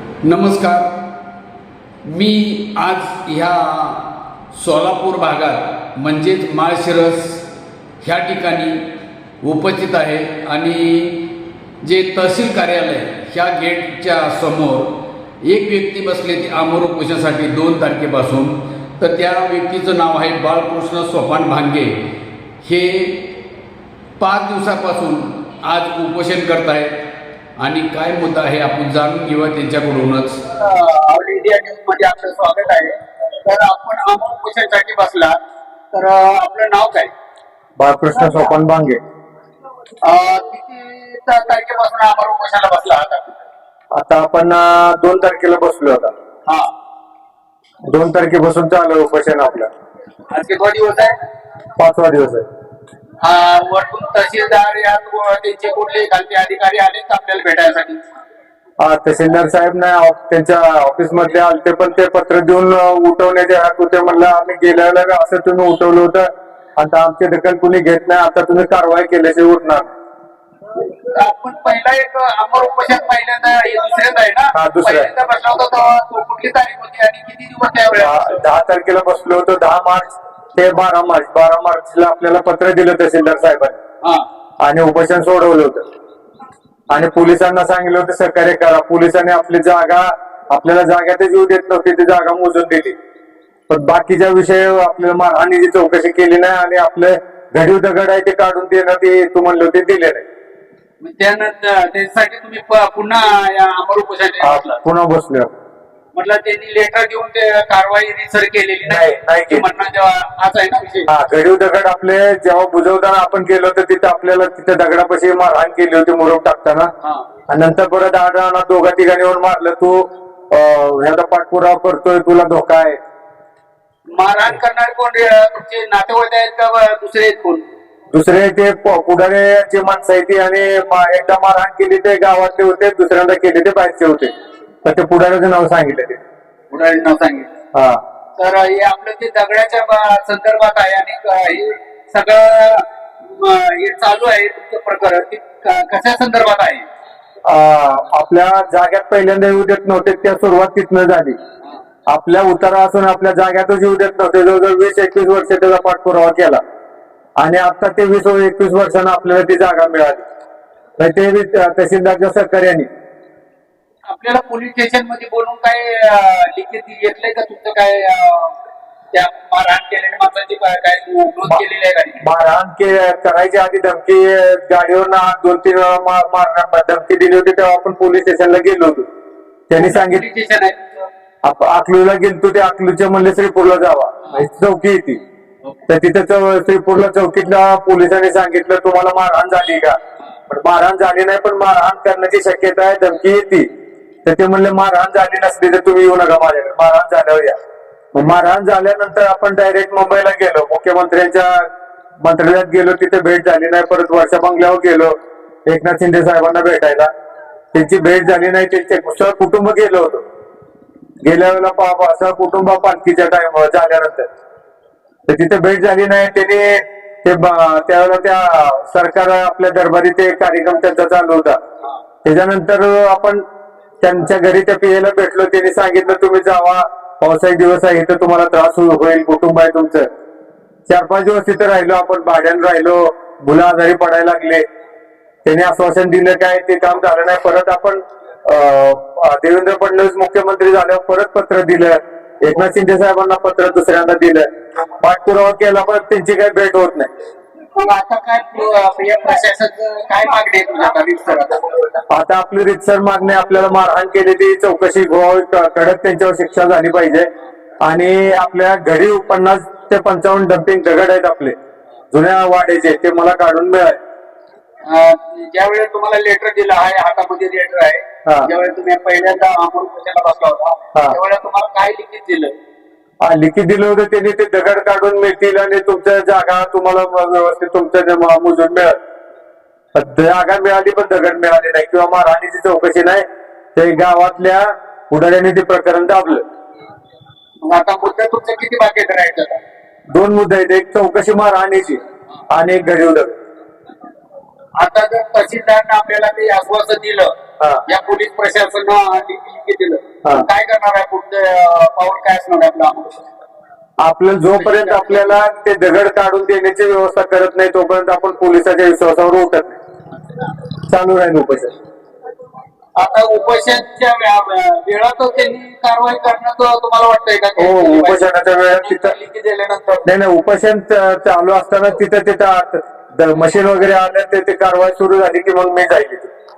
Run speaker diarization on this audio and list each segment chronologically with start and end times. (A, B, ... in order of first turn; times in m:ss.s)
0:00.2-0:00.9 A
0:02.1-0:03.9 B
0:02.2-0:04.1 A
0:04.6-0:05.0 B
0:04.6-0:07.4 A
0:08.0-0:08.9 A
0:09.4-0:11.3 A
0:11.9-0:14.9 A
0:15.5-0:21.9 A
0:16.0-0:16.7 B
0:22.6-0:23.3 A
0:24.2-0:26.9 A
0:27.6-0:30.3 A
0:30.2-0:35.4 B
0:35.9-0:37.1 B
0:37.8-0:39.0 C
0:40.0-0:43.4 B
0:43.9-0:46.1 C
0:47.9-0:49.7 C
0:50.3-0:51.1 B
0:51.8-0:52.4 C
0:53.2-0:58.0 B
0:58.8-1:09.9 C
1:11.0-1:18.4 B
1:14.5-1:15.1 C
1:18.0-1:23.8 C
1:24.6-1:25.8 C
1:26.9-1:33.0 C
1:33.7-1:40.2 C
1:41.0-1:44.8 B
1:44.4-1:45.5 C
1:46.1-1:51.1 B
1:48.9-1:49.6 C
1:51.1-1:56.9 C
1:57.5-2:03.0 C
2:04.2-2:07.6 B
2:08.1-2:14.3 C
2:14.8-2:16.2 C
2:16.7-2:17.5 B
2:17.7-2:18.0 C
2:18.4-2:26.9 B
2:27.4-2:31.4 C
2:32.1-2:36.6 C
2:37.4-2:40.2 C
2:41.0-2:42.9 C
2:44.1-2:48.5 B
2:49.1-2:52.2 B
2:52.2-2:59.1 C
2:59.7-3:00.2 C
2:59.8-3:01.1 B
3:01.4-3:05.2 C
3:05.9-3:10.0 C
3:10.5-3:13.7 C
3:14.2-3:17.6 C
3:18.1-3:21.7 C
3:22.2-3:25.1 C
3:25.7-3:27.1 C
3:27.7-3:30.2 C
3:31.2-3:34.3 C
3:35.3-3:41.6 C
3:42.2-3:43.4 C
3:44.0-3:50.1 C
3:50.9-3:54.6 C
3:55.4-4:04.5 C
4:05.0-4:07.1 C
4:07.7-4:11.9 B
4:12.1-4:17.3 C
4:17.8-4:21.6 C
4:22.1-4:24.0 C
4:24.8-4:32.5 B
4:33.2-4:39.0 C
4:40.0-4:43.2 C
4:43.8-4:46.4 C
4:47.6-4:49.6 B
4:50.1-4:53.4 C
4:54.8-4:57.3 B
4:57.9-5:03.2 B
5:04.0-5:09.8 C
5:04.6-5:05.4 B
5:10.9-5:11.8 C
5:13.0-5:20.1 B
5:17.6-5:19.2 C
5:20.1-5:26.3 C